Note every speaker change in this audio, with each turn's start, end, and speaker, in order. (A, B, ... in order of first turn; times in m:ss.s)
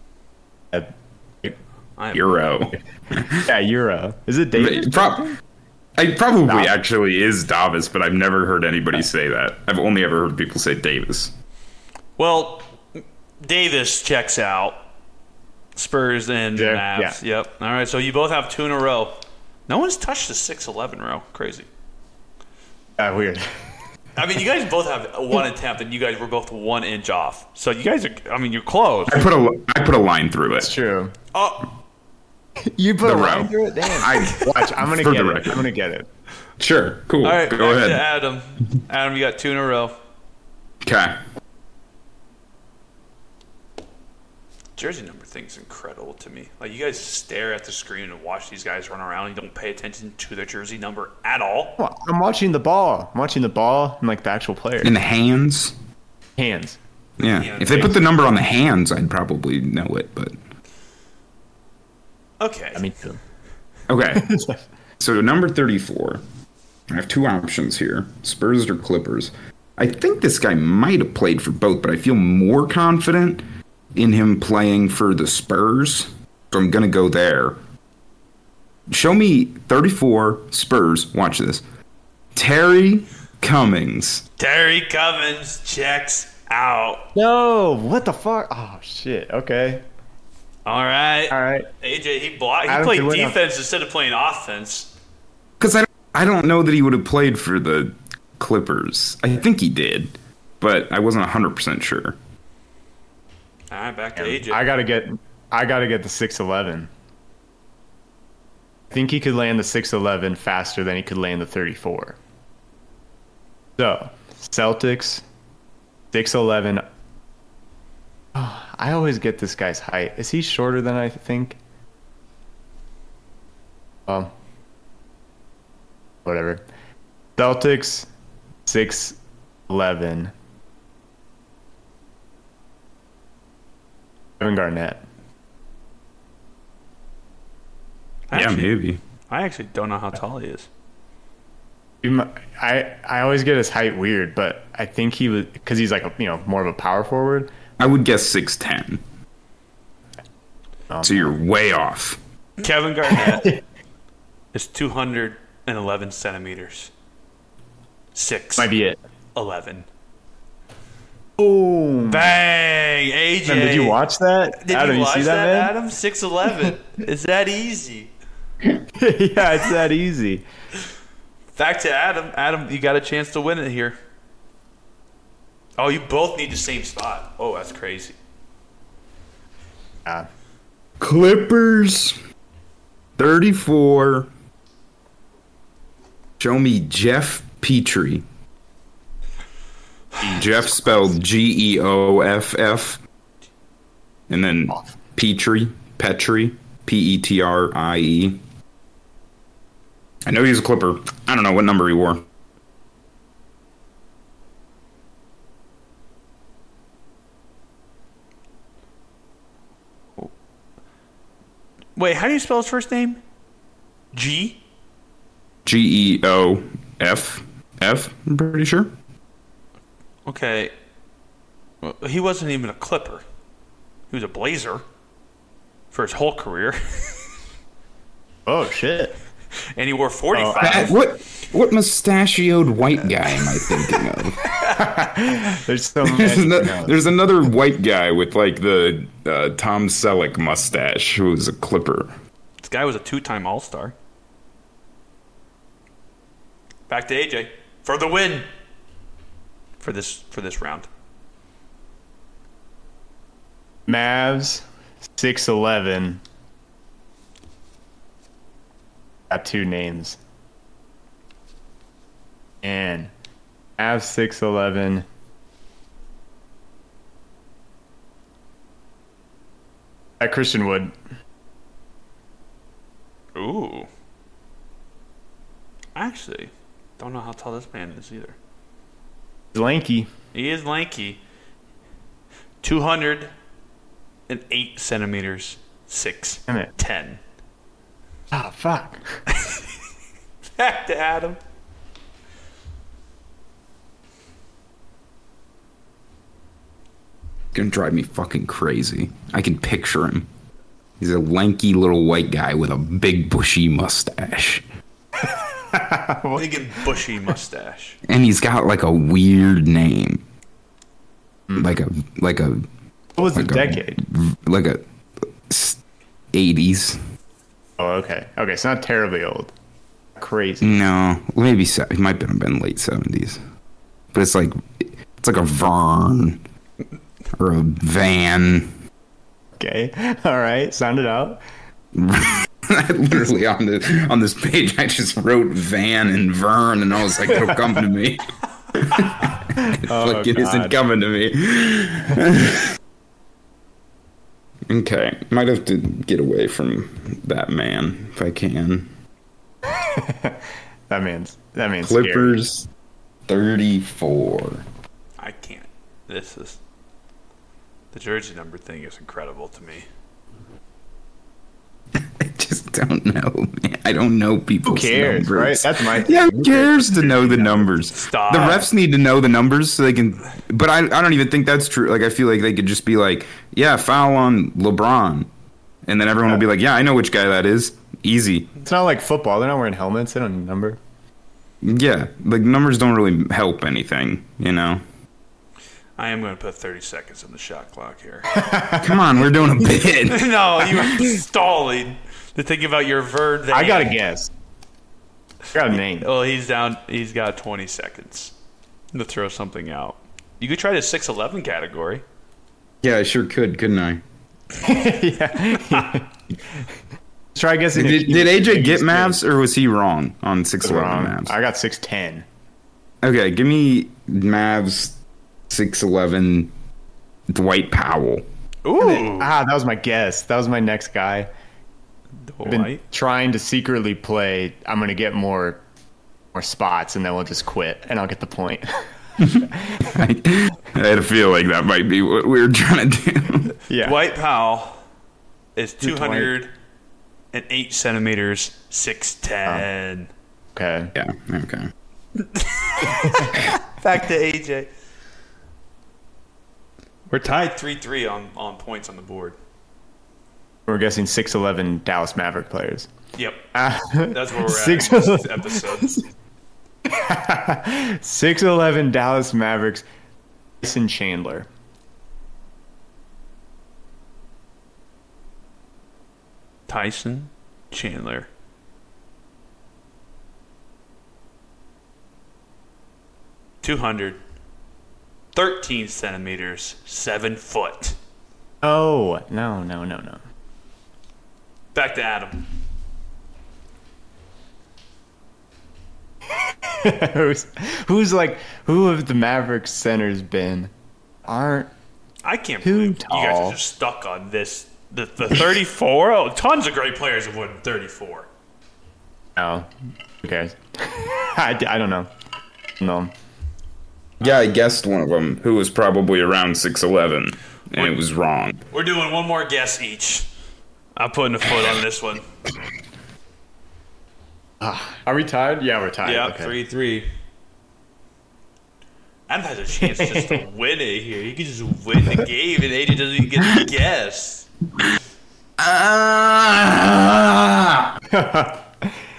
0:00.7-0:01.5 A
0:02.0-0:02.4 B
0:02.1-0:03.5 C
0:03.4-0:05.4 A
0:04.6-0:05.3 C
0:06.0-0:11.3 C
0:06.4-0:06.7 A
0:12.2-0:14.8 B
0:15.8-0:21.7 B
0:16.6-0:17.2 A
0:23.0-0:23.7 A
0:24.2-0:29.3 B
0:29.1-0:30.7 C
0:30.6-0:31.1 A
0:31.3-0:31.7 B
0:32.6-0:36.1 A
0:33.0-0:35.7 C
0:34.1-0:34.4 B
0:36.6-0:38.0 C
0:37.2-0:40.0 B
0:40.8-0:41.2 C
0:44.8-0:51.8 B
0:51.8-0:55.0 A
0:54.8-0:55.8 C
0:56.4-0:56.8 A
0:57.2-1:00.3 C
0:57.2-0:58.1 B
1:02.4-1:02.9 B
1:02.7-1:03.2 A
1:03.9-1:04.3 C
1:04.1-1:04.6 A
1:05.0-1:06.2 C
1:06.9-1:13.4 C
1:13.9-1:17.6 C
1:18.9-1:21.6 C
1:22.3-1:24.2 C
1:24.4-1:27.1 B
1:27.1-1:29.8 A
1:30.6-1:34.9 B
1:31.3-1:31.7 A
1:32.7-1:33.4 A
1:35.6-1:42.2 C
1:43.7-1:44.6 B
1:44.2-1:46.9 A
1:48.9-1:52.2 A
1:53.8-1:55.2 A
1:56.1-1:56.8 A
1:58.3-2:01.6 A
2:04.0-2:04.3 A
2:06.2-2:06.6 A
2:07.4-2:08.1 A
2:08.6-2:10.3 A
2:14.4-2:15.0 A
2:18.3-2:18.7 B
2:18.3-2:19.0 C
2:19.3-2:20.7 B
2:22.0-2:27.5 A
2:27.8-2:29.0 C
2:30.9-2:31.3 A
2:31.0-2:32.2 C
2:32.6-2:33.6 B
2:33.1-2:33.6 A
2:34.5-2:36.9 B
2:38.1-2:38.7 B
2:38.6-2:39.0 A
2:39.3-2:39.9 B
2:41.4-2:42.4 A
2:42.1-2:44.0 B
2:43.5-2:45.7 A
2:44.5-2:48.1 B
2:49.0-2:50.4 A
2:51.6-2:54.0 B
2:55.8-2:58.2 B
3:01.0-3:02.2 C
3:03.2-3:04.3 C
3:06.4-3:08.2 C
3:10.2-3:11.2 A
3:10.2-3:13.0 C
3:14.3-3:18.4 C
3:20.2-3:22.2 C
3:32.0-3:33.2 B
3:34.1-3:34.6 B
3:35.6-3:38.9 C
3:40.2-3:40.7 B
3:41.8-3:43.2 B
3:44.1-3:44.8 B
3:45.9-3:47.3 B
3:48.4-3:49.2 A
3:49.7-3:51.0 B
3:50.3-3:50.9 A
3:50.6-3:54.5 C
3:53.6-3:54.8 B
3:54.6-3:56.9 A
3:56.1-4:02.1 C
4:02.6-4:03.9 B
4:06.9-4:08.5 B
4:09.8-4:10.9 B
4:13.9-4:16.2 A
4:19.3-4:20.2 A
4:22.6-4:23.1 A
4:23.8-4:25.0 A
4:30.2-4:30.9 A
4:33.3-4:33.9 B
4:35.9-4:38.4 B
4:39.5-4:40.1 A
4:40.3-4:41.2 B
4:42.6-4:43.3 B
4:44.3-4:47.2 B
4:48.3-4:49.2 A
4:49.3-4:49.7 B
4:50.6-4:51.4 B
4:57.5-5:00.3 C
5:01.0-5:04.6 C
5:05.7-5:06.8 A
5:06.3-5:08.0 B
5:08.0-5:10.2 C
5:11.5-5:11.8 A
5:11.6-5:12.6 C
5:13.2-5:14.0 A
5:13.3-5:14.8 C
5:15.5-5:15.8 C
5:16.3-5:17.0 C
5:17.8-5:19.5 A
5:20.2-5:20.7 A
5:20.6-5:23.4 C
5:24.1-5:26.4 C
5:27.4-5:28.7 C
5:29.6-5:31.4 A
5:31.9-5:42.7 C
5:37.3-5:37.6 A
5:39.7-5:40.7 A
5:44.7-5:48.9 C
5:49.6-5:52.3 A
5:51.8-5:52.7 C
5:53.3-5:54.6 C
5:55.2-5:56.6 B
5:57.9-5:59.9 B
6:01.9-6:15.3 C
6:04.6-6:07.7 A
6:07.9-6:08.7 B
6:15.8-6:18.5 C
6:18.6-6:20.8 A
6:21.6-6:24.8 C
6:26.0-6:28.4 B
6:28.3-6:29.0 A
6:28.8-6:31.0 C
6:30.0-6:34.0 B
6:33.5-6:34.3 A
6:35.5-6:36.1 A
6:35.9-6:38.3 B
6:38.9-6:42.0 B
6:42.8-6:44.0 C
6:44.6-6:46.7 A
6:47.3-6:49.2 A
6:47.8-6:51.3 C
6:50.6-6:52.2 A
6:53.0-6:55.0 C
6:55.5-6:56.5 C
6:57.3-6:58.2 C
6:58.6-6:59.3 B
6:58.8-7:01.3 A
7:02.2-7:02.8 B
7:02.4-7:05.6 A
7:06.3-7:08.9 A
7:09.2-7:13.5 C
7:09.5-7:10.0 A
7:13.7-7:14.0 A
7:13.8-7:14.8 B
7:15.6-7:16.5 B
7:15.8-7:16.3 A
7:17.3-7:20.1 B
7:20.5-7:20.9 A
7:20.9-7:21.7 C
7:22.2-7:24.7 B
7:27.1-7:29.4 B
7:30.7-7:32.9 A
7:33.1-7:33.5 B
7:33.5-7:36.1 A
7:34.1-7:36.0 B
7:36.8-7:39.8 A
7:40.6-7:41.5 A
7:46.7-7:48.3 B
7:53.6-7:54.2 B
7:55.3-7:58.0 B
7:58.6-8:00.2 A
8:01.7-8:02.5 B
8:06.3-8:10.7 A
8:11.2-8:11.7 A
8:12.2-8:18.3 B
8:12.6-8:13.6 A
8:19.4-8:22.1 A
8:22.8-8:23.1 A
8:24.2-8:28.6 C
8:28.7-8:30.3 B
8:31.0-8:32.2 B
8:34.6-8:36.5 A
8:36.0-8:37.1 B
8:39.3-8:44.5 B
8:40.0-8:40.4 A
8:45.6-8:48.0 C
8:48.1-8:49.0 A